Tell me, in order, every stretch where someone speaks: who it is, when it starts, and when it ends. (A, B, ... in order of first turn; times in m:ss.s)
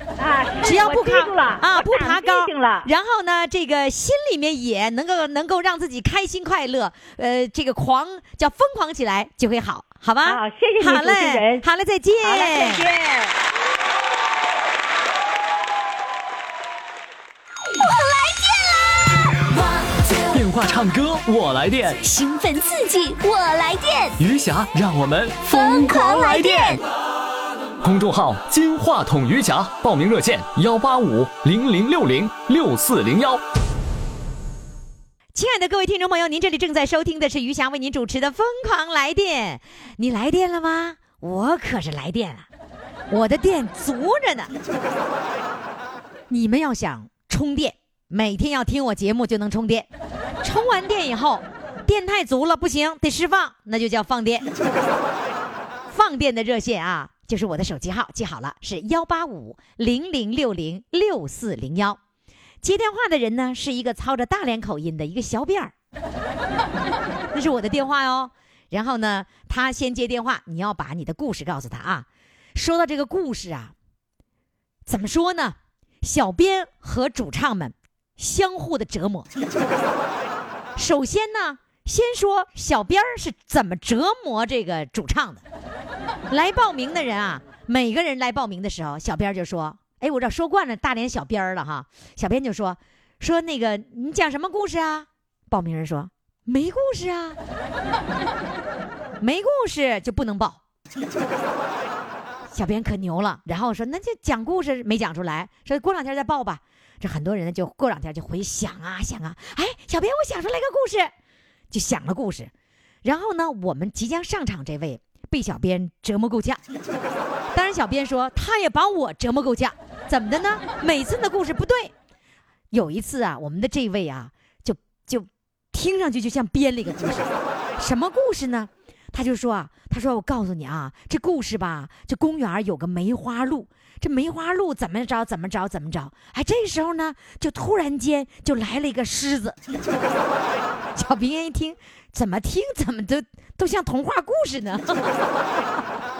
0:00.2-0:02.9 A
0:00.6-0:12.8 B
0:10.2-0:11.6 A
0:12.2-0:13.4 A
0:17.7-0:20.3 C
0:20.3-0:22.0 D
0:22.0-0:24.2 C
0:24.2-0:26.8 D
0:25.5-0:26.8 C
0:27.8-0:33.4 D
0:35.3-0:42.5 B
0:43.1-0:44.5 B
0:46.3-0:49.9 B
0:50.4-0:54.5 B
0:55.9-1:02.0 B
1:02.6-1:05.7 B
1:07.3-1:13.7 B
1:14.8-1:19.3 B
1:20.8-1:25.4 B
1:26.3-1:37.4 B
1:39.2-1:40.6 B
1:42.5-1:51.1 B
1:51.7-1:52.5 B
1:53.0-1:56.6 B
1:57.5-2:01.9 B
2:02.7-2:19.6 B
2:20.9-2:25.8 B